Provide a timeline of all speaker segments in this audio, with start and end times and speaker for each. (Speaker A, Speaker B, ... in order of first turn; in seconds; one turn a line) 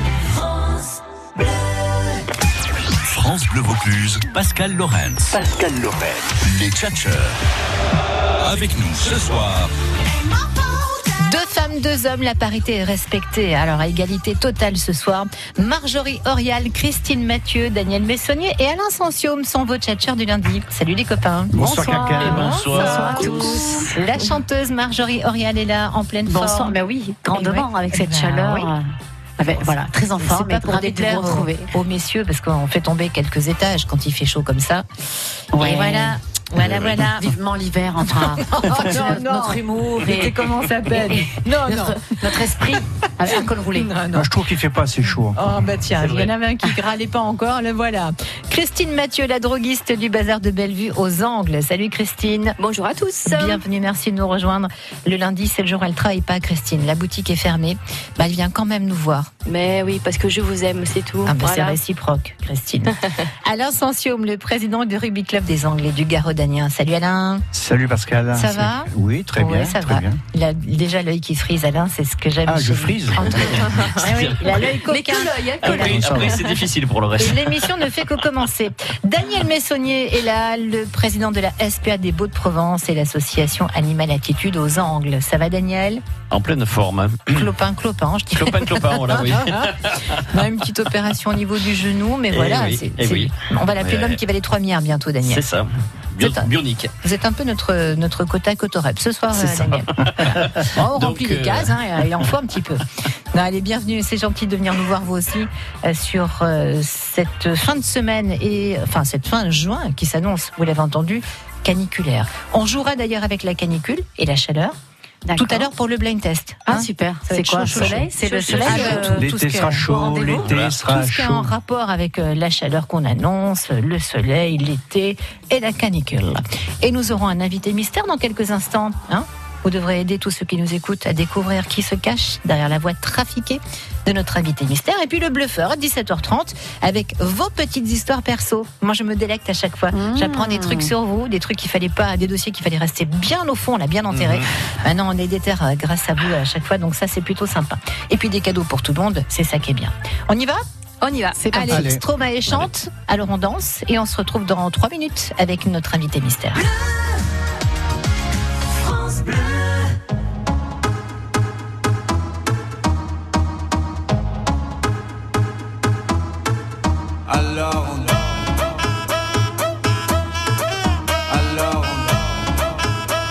Speaker A: 3.0-7.4
Speaker A: 8.4-9.7
Speaker B: 11.2-26.8
Speaker C: 21.5-22.7
Speaker D: 22.2-23.6
Speaker E: 22.3-23.9
Speaker E: 26.3-28.8
Speaker B: 27.3-28.7
Speaker E: 29.4-31.7
Speaker B: 30.2-34.9
Speaker E: 35.5-36.1
Speaker B: 35.5-37.3
Speaker E: 37.1-43.9
Speaker B: 38.0-42.2
Speaker B: 43.4-44.3
Speaker C: 44.1-45.6
Speaker B: 45.3-52.5
Speaker D: 46.0-46.3
Speaker F: 52.6-53.6
Speaker B: 53.2-59.3
Speaker F: 59.4-61.8
Speaker B: 61.2-62.9
Speaker B: 63.4-67.4
Speaker C: 67.5-70.2
Speaker B: 68.3-75.3
Speaker C: 72.4-73.2
Speaker F: 73.4-74.0
Speaker D: 73.5-74.8
Speaker F: 74.8-76.6
Speaker D: 75.6-77.9
Speaker C: 75.7-76.4
Speaker B: 77.2-86.0
Speaker D: 86.3-87.5
Speaker B: 87.3-89.7
Speaker D: 88.3-90.2
Speaker B: 90.3-95.4
Speaker D: 92.3-94.2
Speaker D: 95.2-96.9
Speaker B: 96.2-96.5
Speaker B: 97.0-114.8
Speaker D: 99.3-101.7
Speaker E: 115.2-115.7
Speaker B: 115.3-150.6
Speaker E: 116.7-119.3
Speaker C: 118.5-121.5
Speaker F: 119.9-120.5
Speaker D: 120.3-120.7
Speaker E: 139.9-140.9
Speaker D: 144.1-144.4
Speaker F: 151.0-151.4
Speaker E: 151.4-151.9
Speaker B: 151.5-156.6
Speaker C: 151.7-152.0
Speaker G: 167.3-168.4
Speaker G: 171.3-172.3